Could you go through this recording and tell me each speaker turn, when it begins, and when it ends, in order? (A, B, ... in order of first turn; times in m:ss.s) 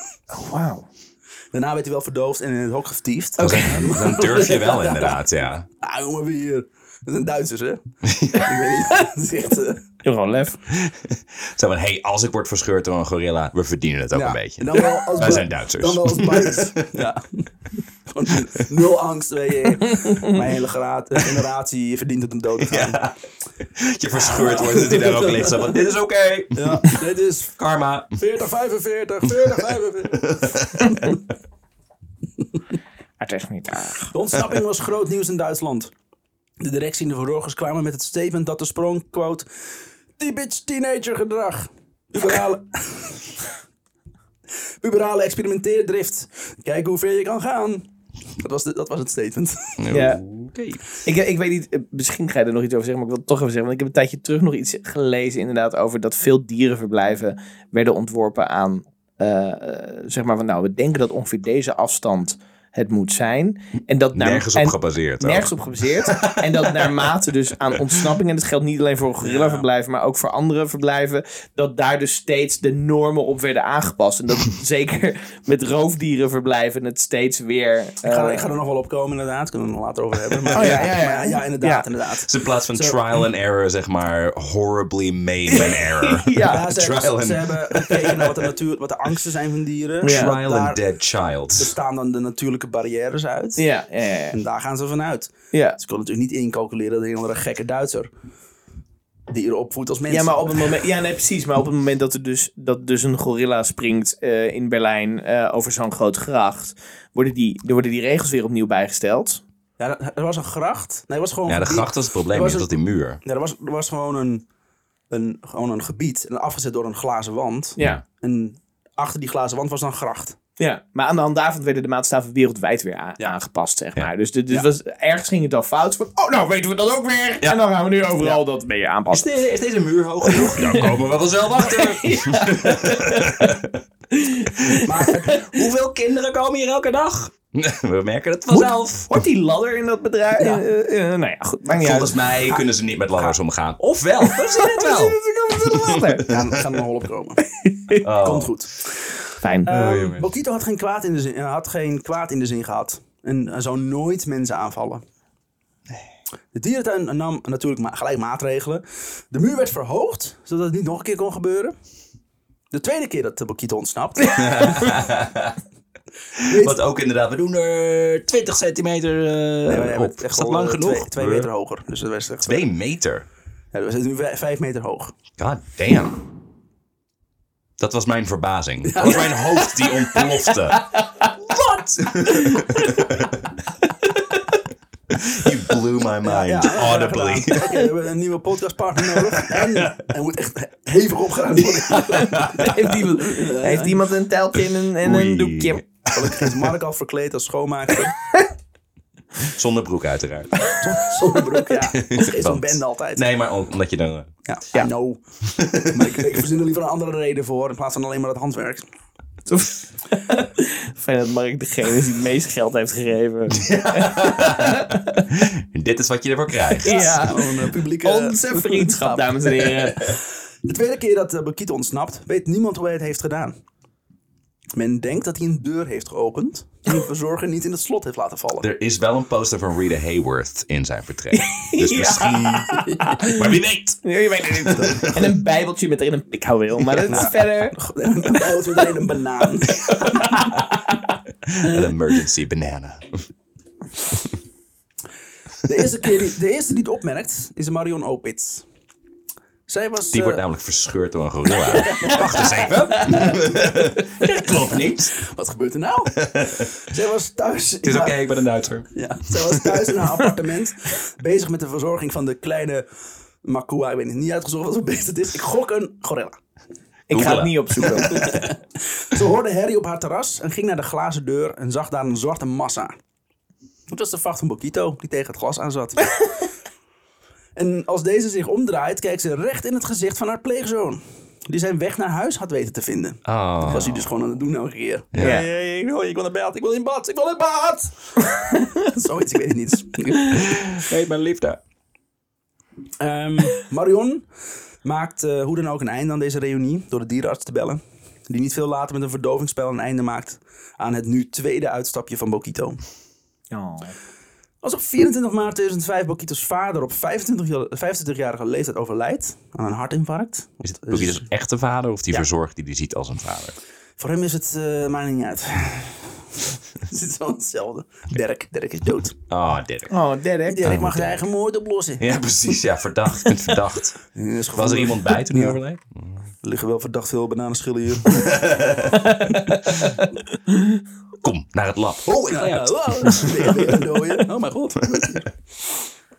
0:00.3-0:00.9 A
0:01.5-0:05.2 B
0:03.4-0:05.6 C
0:05.8-0:09.9 B
0:08.0-0:08.6 C
0:10.0-0:10.6 A
0:10.7-0:17.0 C
0:14.1-0:23.0 B
0:19.9-0:20.4 A
0:22.6-0:23.1 C
0:23.7-0:27.0 C
0:24.2-0:25.6 B
0:26.6-0:27.6 B
0:27.6-0:28.2 C
0:28.1-0:31.2 B
0:30.2-0:31.2 C
0:33.2-0:34.1 A
0:34.1-0:35.9 B
0:36.6-0:39.4 B
0:40.2-0:43.2 B
0:44.8-0:47.9 B
0:48.4-0:49.8 B
0:49.8-0:50.8 C
0:49.9-0:50.2 A
0:51.0-1:18.5 A
1:04.1-1:07.1 C
1:07.7-1:08.1 C
1:09.2-1:09.7 B
1:18.0-1:23.0 B
1:20.3-1:20.9 C
1:20.5-1:21.9 A
1:22.2-1:28.3 C
1:25.5-1:26.7 A
1:26.4-1:30.8 B
1:30.0-1:30.4 A
1:30.0-1:31.7 C
1:31.6-1:33.6 B
1:33.6-1:34.4 A
1:34.3-1:38.1 B
1:35.5-1:35.8 A
1:39.3-1:40.7 B
1:40.1-1:49.4 A
1:49.8-1:54.4 B
1:51.5-1:53.2 C
1:55.1-2:00.4 B
2:00.6-2:09.4 A
2:09.1-2:13.8 C
2:10.2-2:11.0 A
2:11.5-2:13.6 A
2:14.1-2:15.5 A
2:14.8-2:15.5 B
2:15.3-2:19.2 C
2:18.5-2:22.6 A
2:20.4-2:20.6 B
2:21.7-2:26.5 C
2:24.2-2:26.3 A
2:26.2-2:29.0 B
2:27.6-2:28.0 A
2:28.0-2:28.5 C
2:29.4-2:29.7 A
2:29.6-2:35.0 B
2:29.7-2:30.3 C
2:36.5-2:41.7 B
2:42.7-2:45.0 B
2:44.3-2:45.6 C
2:46.4-2:51.5 C
2:46.4-2:46.8 B
2:49.7-2:52.6 B
2:52.4-2:53.3 C
2:53.7-2:55.1 B
2:55.4-2:56.2 C
2:57.8-3:03.5 C
2:58.8-2:59.9 B
3:00.2-3:01.3 A
3:02.3-3:03.0 A
3:05.1-3:07.8 C
3:06.2-3:14.0 B
3:09.1-3:09.9 C
3:11.9-3:15.8 A
3:12.2-3:12.8 C
3:14.5-3:16.6 C
3:16.1-3:18.1 B
3:19.5-3:20.6 C
3:20.8-3:23.3 B
3:21.9-3:24.3 C
3:24.4-3:25.2 B
3:25.5-3:26.3 C
3:25.8-3:28.8 B
3:29.5-3:35.3 A
3:33.5-3:37.1 C
3:36.8-3:40.2 A
3:36.8-3:43.6 B
3:44.8-3:48.7 B
3:48.6-3:55.3 C
3:51.3-3:57.8 A
3:56.9-3:57.3 C
3:57.1-4:00.6 B
3:58.3-3:58.9 A
3:59.9-4:01.0 A
4:01.4-4:03.2 C
4:05.6-4:08.6 B
4:09.7-4:10.4 B
4:10.1-4:15.1 C
4:11.8-4:13.4 B
4:12.0-4:13.3 A
4:15.1-4:18.2 B
4:16.1-4:16.7 C
4:17.8-4:20.1 C
4:18.9-4:22.8 B
4:23.4-4:26.4 B
4:27.1-4:28.3 A
4:27.1-4:28.4 C
4:27.9-4:33.0 B
4:33.9-4:36.1 B
4:37.6-4:50.7 B
4:43.3-4:44.2 C
4:45.1-4:45.4 C
4:45.2-4:45.4 A
4:50.3-4:51.6 C
4:53.0-4:54.3 B
4:54.8-5:02.8 B
5:03.5-5:03.9 A
5:04.6-5:11.2 B
5:10.6-5:13.6 C
5:14.0-5:16.2 B
5:16.8-5:19.2 B
5:19.3-5:19.9 C
5:19.9-5:20.8 A
5:20.5-5:22.2 B
5:20.6-5:21.3 C
5:22.0-5:24.0 C
5:24.1-5:25.6 B
5:24.6-5:26.2 C
5:26.4-5:29.7 B
5:28.0-5:29.0 C
5:29.0-5:30.0 A
5:31.2-5:33.8 C
5:32.3-5:35.3 B